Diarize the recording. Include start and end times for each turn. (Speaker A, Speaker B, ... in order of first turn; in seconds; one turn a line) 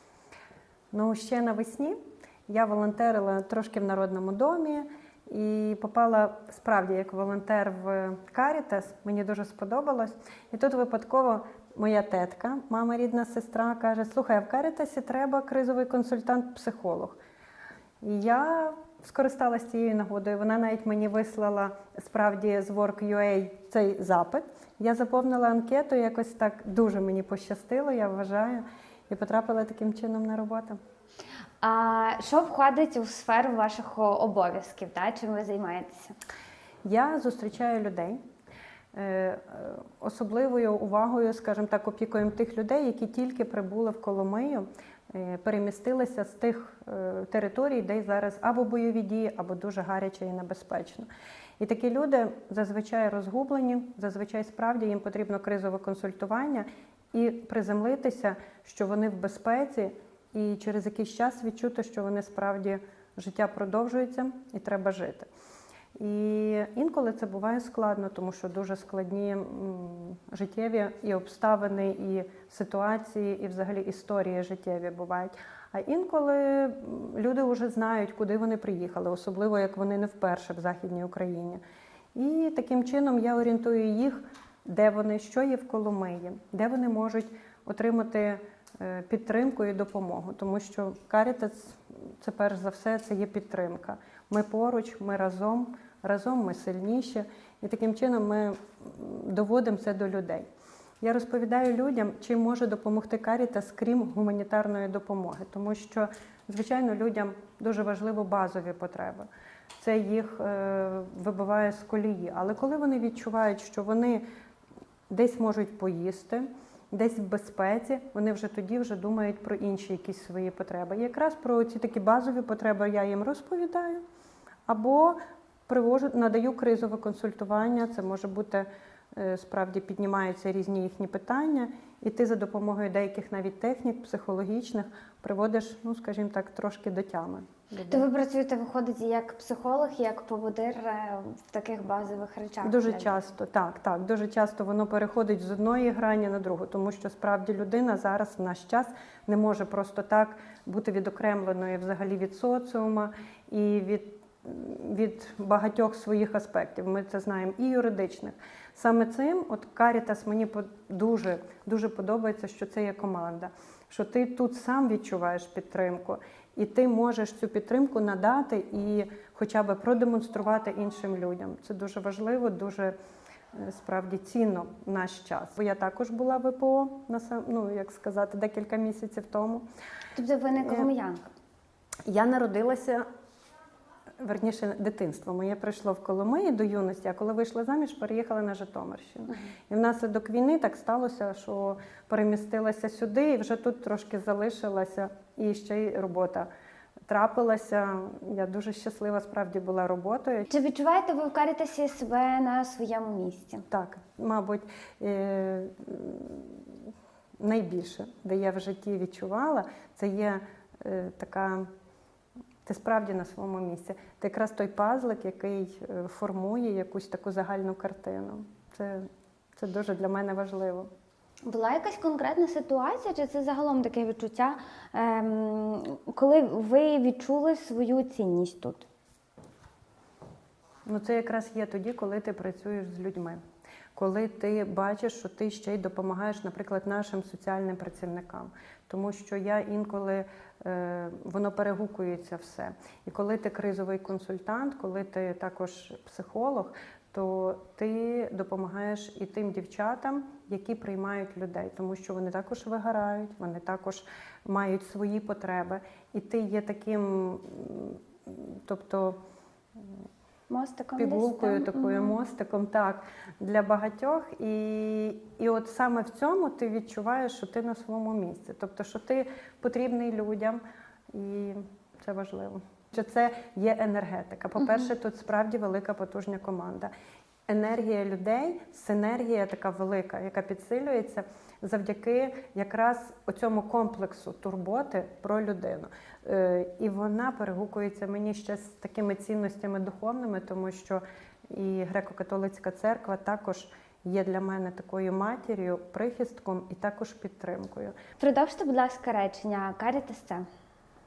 Speaker A: 0.9-2.0
Speaker A: 2.5-17.2
Speaker A: 18.0-30.8
Speaker B: 31.6-36.1
Speaker A: 36.8-38.2
Speaker A: 38.9-51.1
Speaker A: 51.6-65.3
Speaker A: 66.0-81.6
Speaker A: 82.1-100.5
Speaker A: 101.0-114.2
Speaker A: 115.1-124.0
Speaker A: 124.7-138.1
Speaker B: 137.9-143.1
Speaker A: 142.6-172.9
Speaker A: 173.5-179.6
Speaker B: 180.1-181.2
Speaker A: 180.6-180.9
Speaker A: 182.1-183.0
Speaker A: 184.2-196.5
Speaker A: 197.1-200.5
Speaker B: 200.5-203.6
Speaker A: 203.7-206.7
Speaker A: 207.4-211.7
Speaker A: 212.6-220.9
Speaker B: 221.4-228.8
Speaker A: 230.9-233.4
Speaker A: 233.9-259.1
Speaker B: 260.5-262.1
Speaker A: 261.0-270.6
Speaker A: 271.1-276.9
Speaker A: 277.5-297.9
Speaker B: 298.2-300.4